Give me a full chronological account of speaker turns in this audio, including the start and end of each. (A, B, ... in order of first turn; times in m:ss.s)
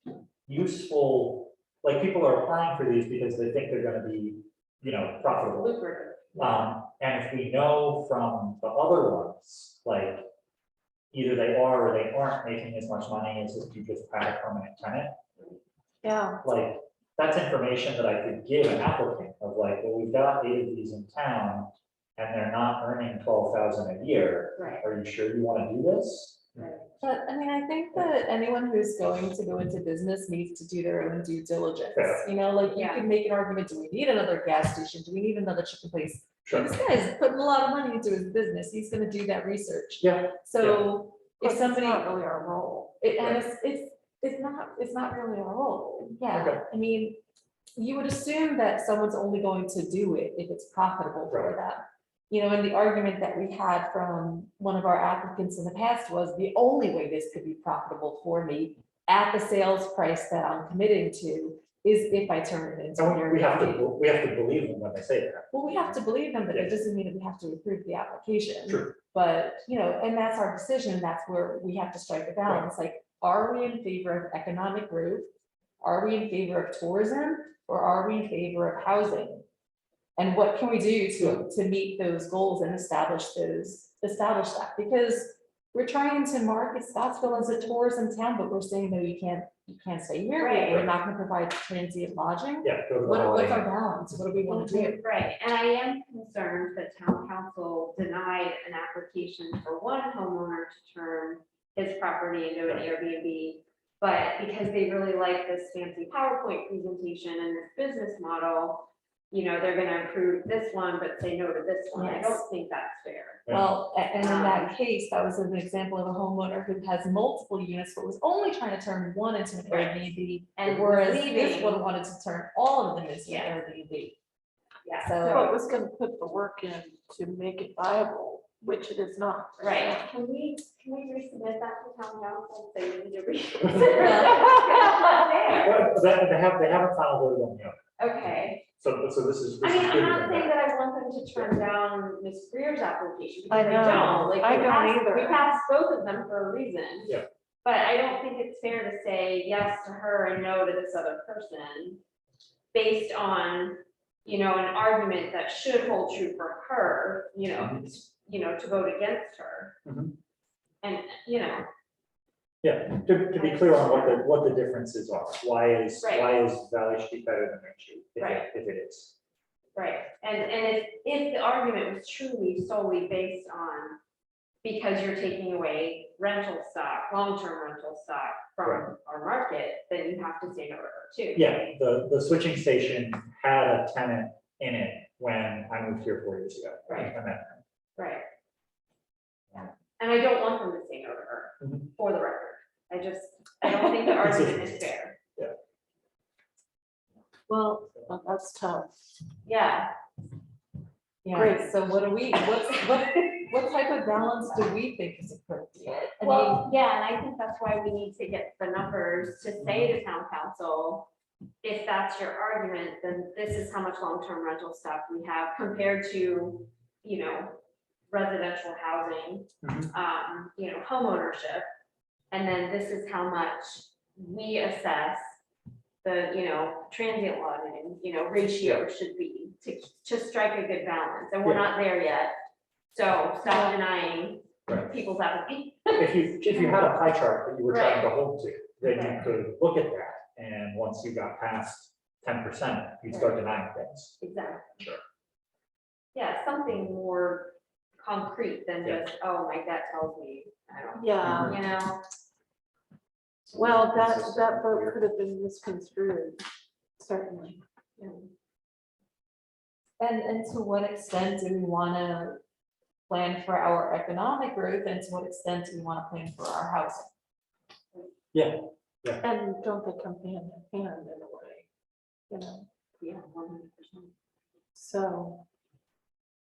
0:00.5-0:05.8 A
0:05.3-0:06.7 B
0:06.3-0:10.3 A
0:11.1-0:15.2 A
0:16.0-0:16.4 C
0:16.4-0:26.6 A
0:24.6-0:24.8 B
0:26.6-0:26.8 B
0:27.0-0:42.1 D
0:31.9-0:32.2 A
0:32.7-0:33.0 B
0:36.4-0:36.8 A
0:40.0-0:40.9 A
0:41.4-0:42.9 C
0:43.0-0:47.2 D
0:43.2-0:43.4 A
0:46.3-0:46.6 A
0:47.8-1:03.8 D
0:51.3-0:51.6 A
1:03.0-1:05.5 A
1:05.5-1:15.3 D
1:06.5-1:06.8 A
1:08.7-1:08.9 A
1:15.8-1:19.4 D
1:20.2-1:35.0 D
1:21.2-1:21.4 A
1:30.4-1:30.8 B
1:32.6-1:33.7 A
1:34.5-1:53.4 B
1:51.9-1:52.4 D
1:53.5-1:53.7 A
1:53.5-2:04.2 D
1:54.2-1:54.7 B
1:59.7-2:01.8 B
2:03.2-2:03.6 B
2:04.8-2:05.5 B
2:05.0-2:05.5 D
2:05.3-2:10.1 C
2:09.6-2:15.9 B
2:13.9-2:14.5 D
2:15.5-2:17.8 A
2:18.0-2:18.6 B
2:18.8-2:20.5 A
2:19.6-2:32.0 B
2:23.5-2:25.5 C
2:32.7-2:39.8 B
2:37.6-2:37.8 A
2:39.8-2:40.1 A
2:40.8-2:41.7 B
2:42.6-2:49.1 A
2:43.3-2:44.2 B
2:46.0-2:46.3 B
2:48.2-2:48.4 B
2:49.7-2:54.0 B
2:54.6-3:01.5 B
3:01.3-3:07.6 A
3:06.9-3:07.1 B
3:08.0-3:08.2 B
3:09.5-3:15.2 B
3:11.6-3:11.9 A
3:14.1-3:15.5 A
3:17.5-3:18.9 C
3:19.4-3:19.9 B
3:21.2-3:26.6 D
3:21.3-3:21.7 C
3:26.2-3:31.1 B
3:29.6-3:29.9 A
3:31.6-3:37.6 B
3:38.1-3:41.6 B
3:39.6-3:39.9 A
3:42.3-3:45.2 B
3:46.0-3:52.3 B
3:52.9-3:56.9 B
3:54.7-3:54.9 A
3:56.0-4:04.2 A
3:57.7-3:58.1 B
3:58.8-3:59.2 B
4:03.1-4:03.4 B
4:04.2-4:04.8 B
4:06.1-4:12.0 B
4:11.0-4:11.6 C
4:11.2-4:11.6 A
4:13.5-4:15.0 A
4:13.5-4:16.4 C
4:17.0-4:17.6 C
4:18.0-4:18.2 B
4:20.0-4:22.4 D
4:23.1-4:27.1 D
4:28.3-4:29.2 A
4:29.2-4:31.7 C
4:32.3-4:32.6 C
4:33.0-4:34.1 B
4:34.7-4:35.4 C